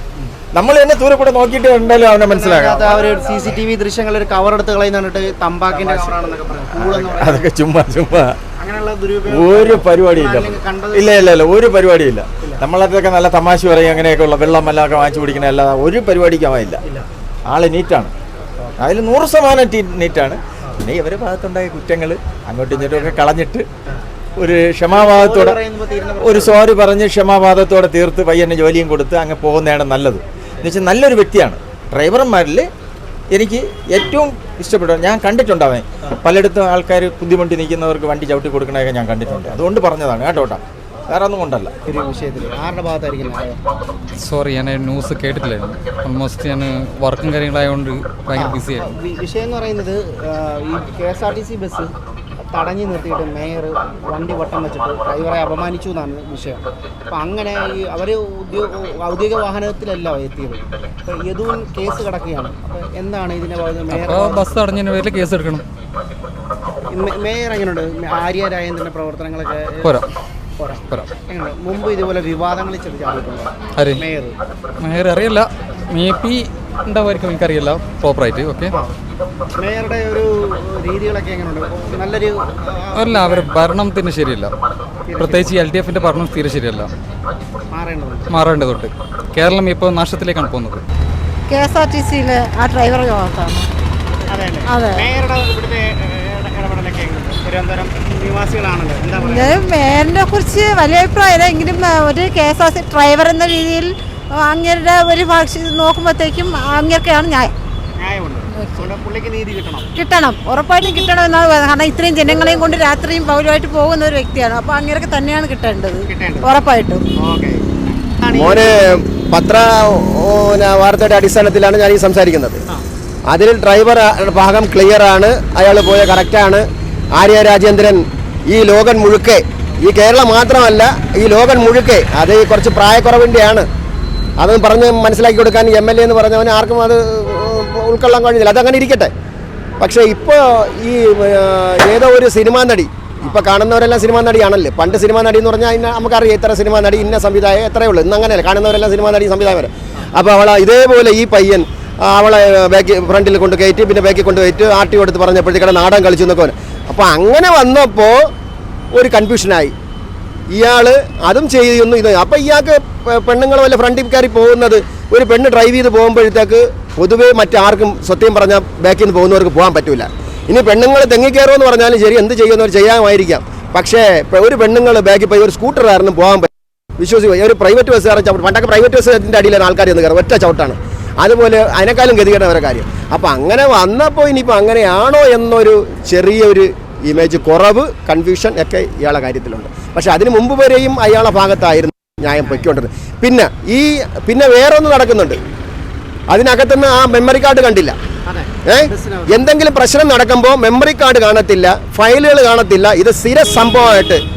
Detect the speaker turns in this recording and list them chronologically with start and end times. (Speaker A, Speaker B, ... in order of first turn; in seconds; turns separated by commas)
Speaker A: 0.5-3.2, Speaker B: 2.3-7.5, Speaker A: 5.7-8.4, Speaker B: 8.6-11.3, Speaker A: 9.2-16.8, Speaker A: 17.5-18.1, Speaker A: 18.8-23.7, Speaker B: 22.7-23.3, Speaker A: 24.4-25.6, Speaker B: 24.9-26.7, Speaker A: 26.2-32.7, Speaker A: 33.3-41.7, Speaker B: 41.9-43.6, Speaker C: 45.2-46.0, Speaker C: 47.9-48.8, Speaker B: 48.3-65.3, Speaker C: 63.9-65.6, Speaker B: 66.9-70.0, Speaker B: 70.6-74.4, Speaker C: 76.1-76.4, Speaker C: 77.6-78.7, Speaker B: 78.7-78.9, Speaker B: 79.6-83.8, Speaker C: 83.0-84.5, Speaker B: 85.1-85.6, Speaker C: 85.2-86.9, Speaker B: 87.7-88.6, Speaker C: 88.3-90.8, Speaker D: 91.5-93.7, Speaker B: 94.3-99.7, Speaker D: 94.7-95.1, Speaker D: 99.1-107.5, Speaker B: 108.0-109.9, Speaker D: 110.0-117.1, Speaker B: 112.4-112.7, Speaker B: 116.1-116.6, Speaker B: 117.2-118.7, Speaker E: 118.3-122.6, Speaker E: 123.3-126.7, Speaker E: 127.2-133.7, Speaker E: 134.4-139.1, Speaker E: 139.8-158.3, Speaker E: 158.9-159.7, Speaker E: 160.5-195.4, Speaker B: 192.4-192.7, Speaker E: 196.3-198.0, Speaker B: 198.3-199.4, Speaker E: 198.7-204.2